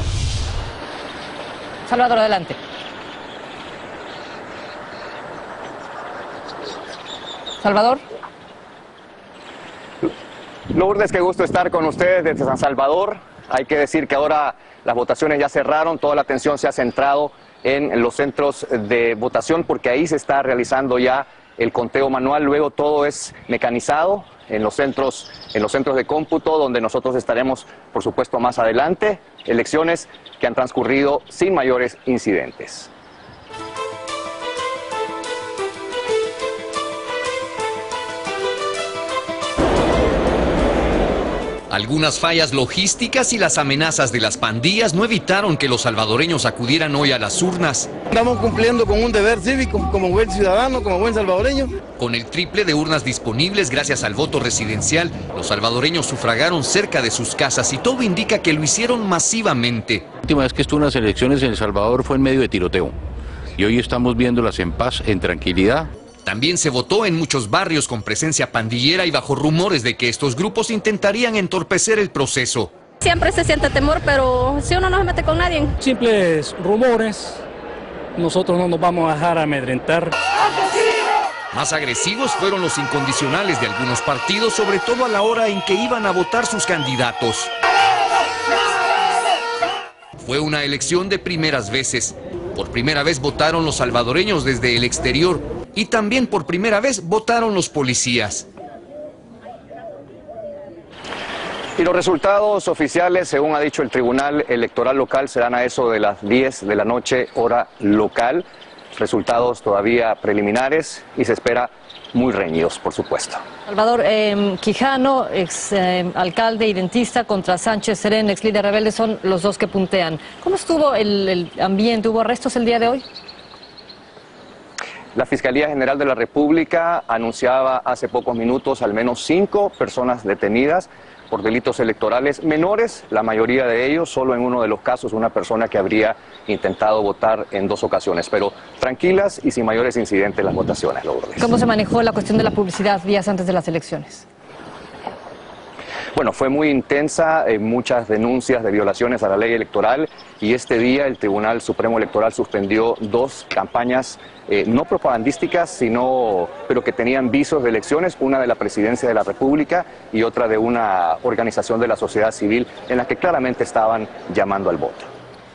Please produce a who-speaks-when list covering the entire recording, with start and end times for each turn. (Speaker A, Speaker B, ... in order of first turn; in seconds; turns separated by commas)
Speaker A: 1.9-2.6, Speaker A: 7.6-8.0, Speaker B: 10.7-32.9, Speaker C: 41.7-47.9, Speaker D: 48.1-51.7, Speaker C: 52.0-60.1, Speaker E: 60.2-63.0, Speaker E: 63.6-65.9, Speaker C: 66.2-72.7, Speaker F: 73.0-75.7, Speaker G: 75.8-77.4, Speaker G: 78.2-80.1, Speaker C: 81.5-87.5, Speaker C: 90.2-98.5, Speaker B: 101.8-113.4, Speaker A: 113.7-123.0, Speaker B: 125.1-141.5, Speaker A: 141.4-144.2, Speaker B: 146.1-165.1